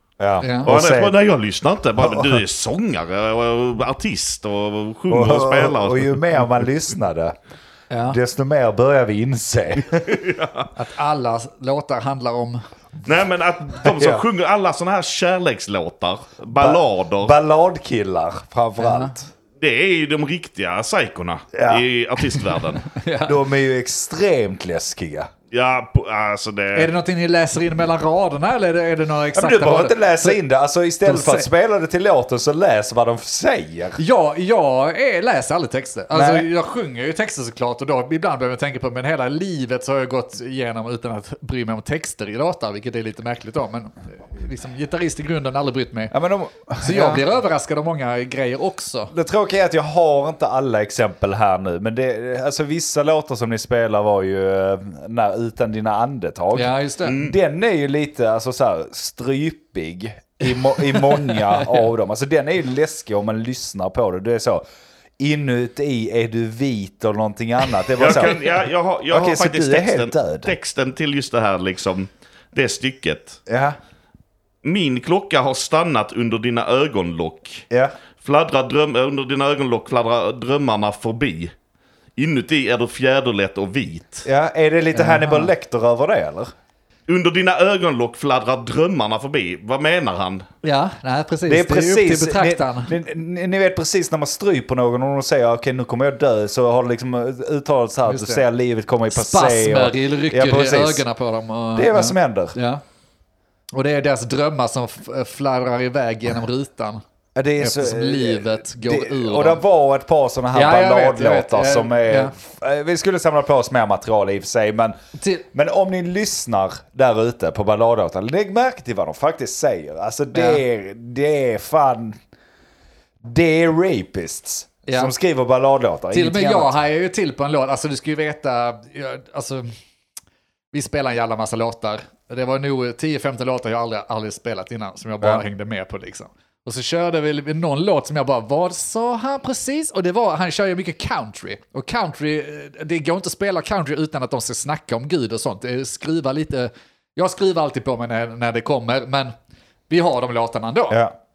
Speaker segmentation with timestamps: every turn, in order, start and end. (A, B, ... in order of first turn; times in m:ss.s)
0:00.2-0:01.1 A
0:00.4-0:00.7 B
0:00.6-0:06.4 C
0:02.0-0:02.4 A
0:05.1-0:07.3 A
0:07.9-0:08.2 B
0:08.1-0:10.2 A
0:10.1-0:10.7 C
0:10.7-0:12.6 B
0:13.0-0:17.3 C
0:13.8-0:14.2 A
0:16.5-0:19.3 A
0:18.8-0:19.1 B
0:19.6-0:22.8 C
0:21.5-0:22.4 A
0:22.9-0:23.4 B
0:23.2-0:25.3 A
0:25.5-0:26.9 C
0:26.7-0:30.4 B
0:29.3-0:34.0 A
0:31.0-0:31.5 B
0:34.0-0:46.1 B
0:36.1-0:36.5 A
0:46.1-0:47.2 A
0:46.8-0:49.1 B
0:49.1-1:04.6 A
0:56.5-0:57.2 B
0:57.0-0:57.3 C
1:00.6-1:01.9 B
1:05.2-1:08.5 A
1:07.9-1:13.4 C
1:09.1-1:10.5 A
1:13.5-1:13.8 A
1:14.6-1:17.6 C
1:18.2-1:21.5 C
1:22.2-1:24.2 C
1:24.2-1:26.5 A
1:24.9-1:25.5 B
1:27.1-1:30.4 C
1:30.6-1:32.9 B
1:31.5-1:41.0 A
1:38.1-1:38.4 B
1:39.1-1:42.8 B
1:41.7-1:42.5 A
1:43.7-1:47.0 B
1:47.3-1:54.9 A
1:47.6-1:49.6 B
1:50.5-1:52.3 B
1:55.2-1:55.4 B
1:55.5-2:02.2 A
2:00.3-2:00.6 B
2:03.2-2:06.7 A
2:04.8-2:05.1 B
2:06.1-2:09.7 B
2:10.7-2:29.3 B
2:29.9-2:31.0 B